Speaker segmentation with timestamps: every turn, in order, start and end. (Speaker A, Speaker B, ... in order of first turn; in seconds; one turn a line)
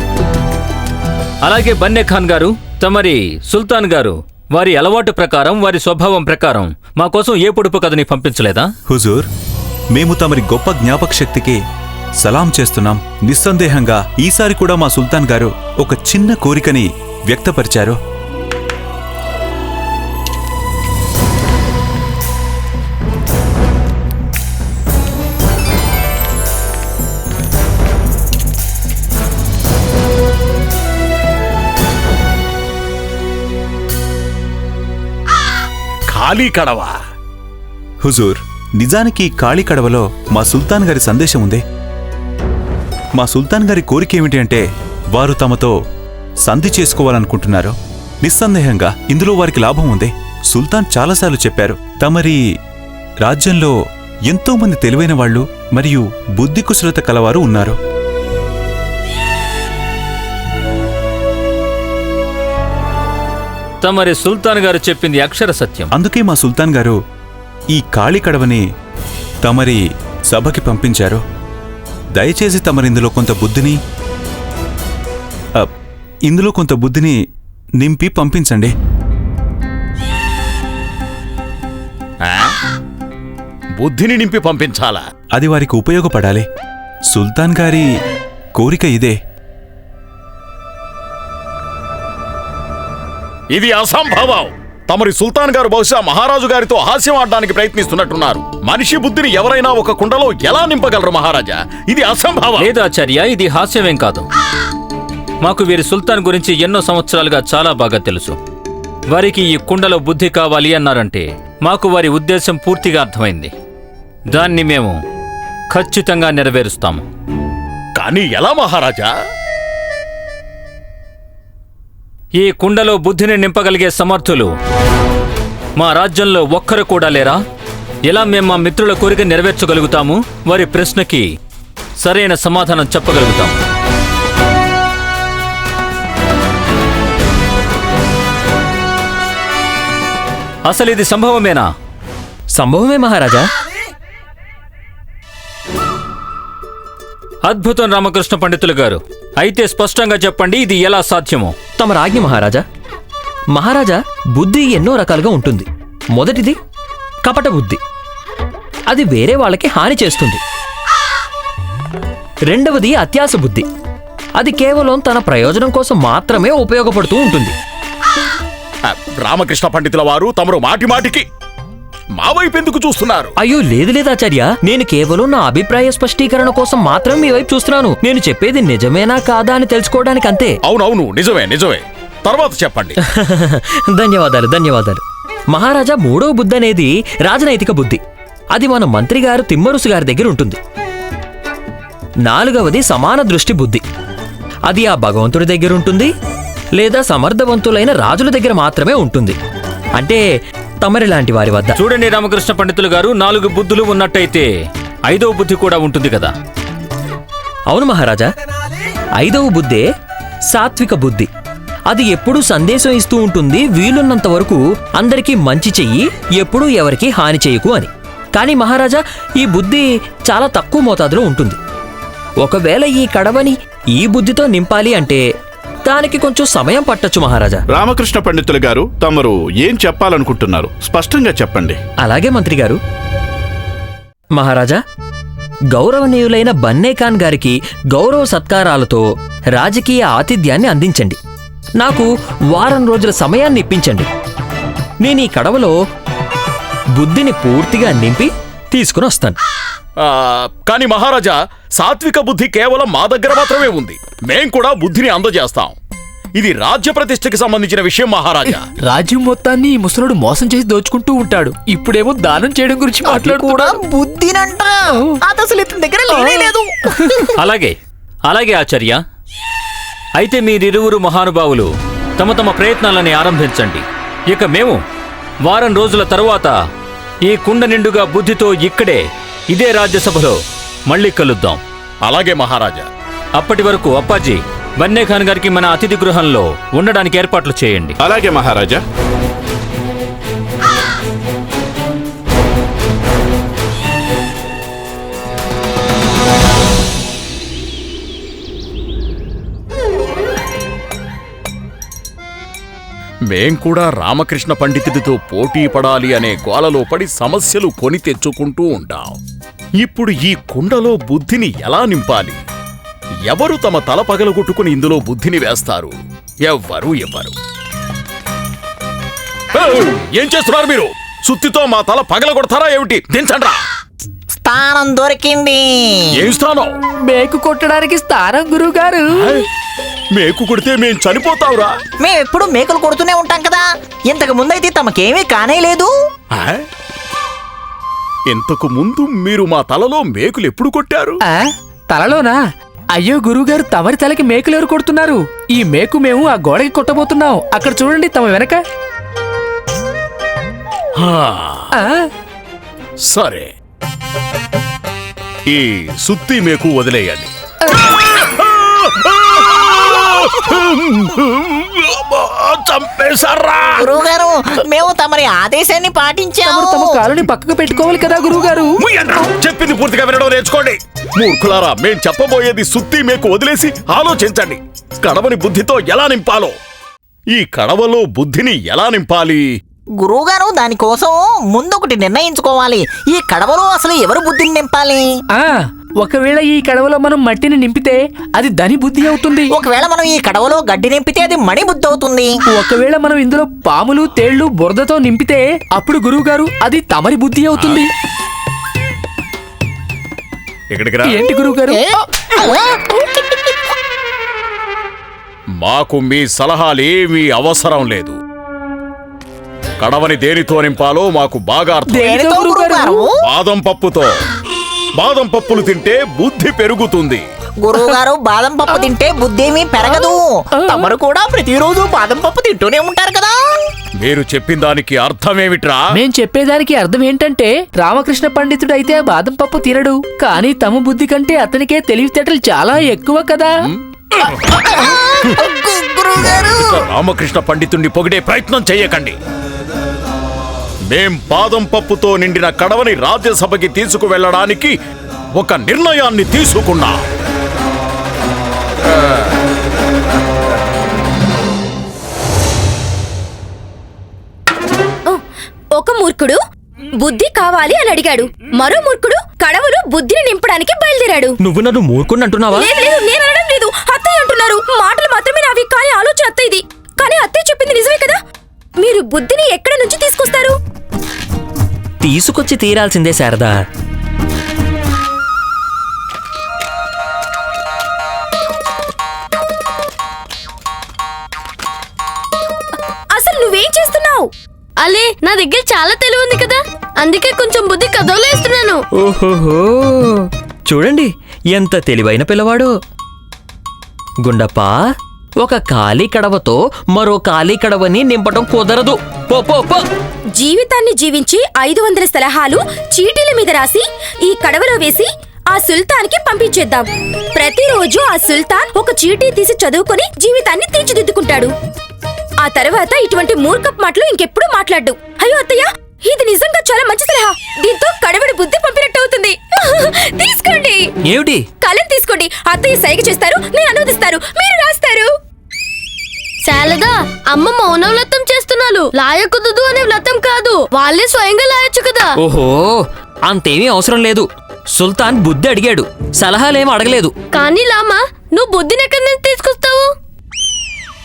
Speaker A: 1.4-8.7
Speaker B: 8.9-9.3
Speaker B: 9.9-11.6
Speaker B: 12.2-18.0
Speaker C: 36.1-36.9
Speaker B: 38.0-41.6
Speaker B: 43.2-45.7
Speaker B: 46.4-52.4
Speaker B: 53.2-53.7
Speaker B: 54.3-57.8
Speaker A: 63.8-65.9
Speaker B: 65.9-67.0
Speaker B: 67.7-68.6
Speaker B: 69.4-69.8
Speaker B: 70.3-71.2
Speaker B: 72.2-73.8
Speaker B: 76.3-77.2
Speaker B: 77.8-78.7
Speaker C: 82.3-82.5
Speaker C: 83.8-85.0
Speaker B: 85.3-86.5
Speaker B: 87.1-87.9
Speaker B: 88.6-89.2
Speaker C: 93.5-102.7
Speaker A: 102.6-104.2
Speaker A: 105.4-108.4
Speaker A: 109.1-113.5
Speaker A: 114.3-115.0
Speaker A: 115.7-117.0
Speaker C: 118.0-119.1
Speaker A: 122.4-124.5
Speaker A: 125.8-127.4
Speaker A: 128.1-131.3
Speaker A: 132.0-133.6
Speaker A: 140.7-141.7
Speaker D: 142.6-143.5
Speaker A: 147.4-151.5
Speaker D: 151.8-152.6
Speaker D: 153.6-156.6
Speaker D: 157.3-157.8
Speaker D: 158.9-160.4
Speaker D: 162.5-163.7
Speaker D: 164.4-167.6
Speaker C: 168.9-171.2
Speaker C: 172.2-173.3
Speaker D: 173.4-180.6
Speaker C: 180.7-183.0
Speaker D: 183.1-185.0
Speaker D: 185.5-188.0
Speaker D: 188.6-190.6
Speaker D: 192.3-193.8
Speaker D: 194.7-196.1
Speaker D: 196.8-199.4
Speaker D: 200.8-201.8
Speaker A: 201.8-204.5
Speaker A: 205.1-206.3
Speaker D: 207.7-208.3
Speaker D: 209.2-209.9
Speaker D: 210.5-211.3
Speaker D: 211.9-221.6
Speaker D: 222.4-225.2
Speaker D: 225.9-227.6
Speaker E: 227.7-231.8
Speaker D: 232.1-232.8
Speaker D: 234.4-234.8
Speaker D: 235.7-239.0
Speaker D: 239.6-241.2
Speaker D: 241.8-244.1
Speaker D: 245.0-245.7
Speaker D: 247.0-249.4
Speaker C: 250.1-255.8
Speaker C: 256.4-258.6
Speaker F: 258.8-263.8
Speaker G: 263.0-267.4
Speaker F: 266.1-266.5
Speaker A: 267.4-267.8
Speaker A: 268.3-269.0
Speaker A: 270.2-274.8
Speaker A: 275.4-276.5
Speaker A: 277.3-280.4
Speaker A: 280.9-281.6
Speaker C: 282.1-282.9
Speaker A: 283.4-287.9
Speaker E: 288.0-288.8
Speaker C: 303.3-309.2
Speaker C: 309.8-312.4
Speaker C: 313.3-315.9
Speaker C: 316.5-317.3
Speaker C: 319.5-323.6
Speaker G: 324.4-326.3
Speaker C: 326.2-326.8
Speaker F: 327.1-329.3
Speaker C: 329.1-329.4
Speaker C: 330.1-331.7
Speaker G: 332.0-335.9
Speaker C: 336.4-336.6
Speaker C: 338.3-341.2
Speaker F: 341.3-342.4
Speaker F: 342.9-348.6
Speaker C: 351.0-351.7
Speaker F: 351.8-352.1
Speaker C: 353.1-353.5
Speaker C: 355.5-357.3
Speaker C: 357.9-363.9
Speaker G: 363.8-367.0
Speaker F: 366.4-368.8
Speaker C: 368.8-376.5
Speaker C: 377.4-379.4
Speaker G: 380.0-385.1
Speaker F: 385.4-389.5
Speaker G: 389.5-392.3
Speaker F: 392.5-397.9
Speaker C: 397.6-397.8
Speaker C: 400.7-401.2
Speaker F: 401.0-402.0
Speaker C: 405.6-408.2
Speaker C: 409.8-412.0
Speaker F: 411.9-413.1
Speaker G: 411.9-413.1
Speaker C: 413.2-414.1
Speaker C: 415.0-417.2
Speaker G: 417.6-423.4
Speaker F: 419.9-420.1
Speaker C: 424.0-426.0
Speaker F: 425.9-433.5
Speaker G: 434.6-436.8
Speaker C: 436.2-439.2
Speaker C: 440.9-444.7
Speaker C: 445.4-447.0
Speaker H: 455.8-456.4
Speaker H: 457.0-461.4
Speaker D: 461.4-462.7
Speaker H: 462.5-468.2
Speaker H: 468.8-470.6
Speaker D: 472.0-473.6
Speaker H: 483.1-484.3
Speaker I: 484.8-488.8
Speaker D: 489.0-492.7
Speaker D: 494.2-494.8
Speaker D: 495.4-499.8
Speaker H: 500.4-511.5
Speaker H: 512.4-520.9
Speaker D: 521.1-521.5
Speaker H: 521.6-525.1
Speaker I: 526.4-532.2
Speaker D: 532.2-537.1
Speaker I: 537.3-539.9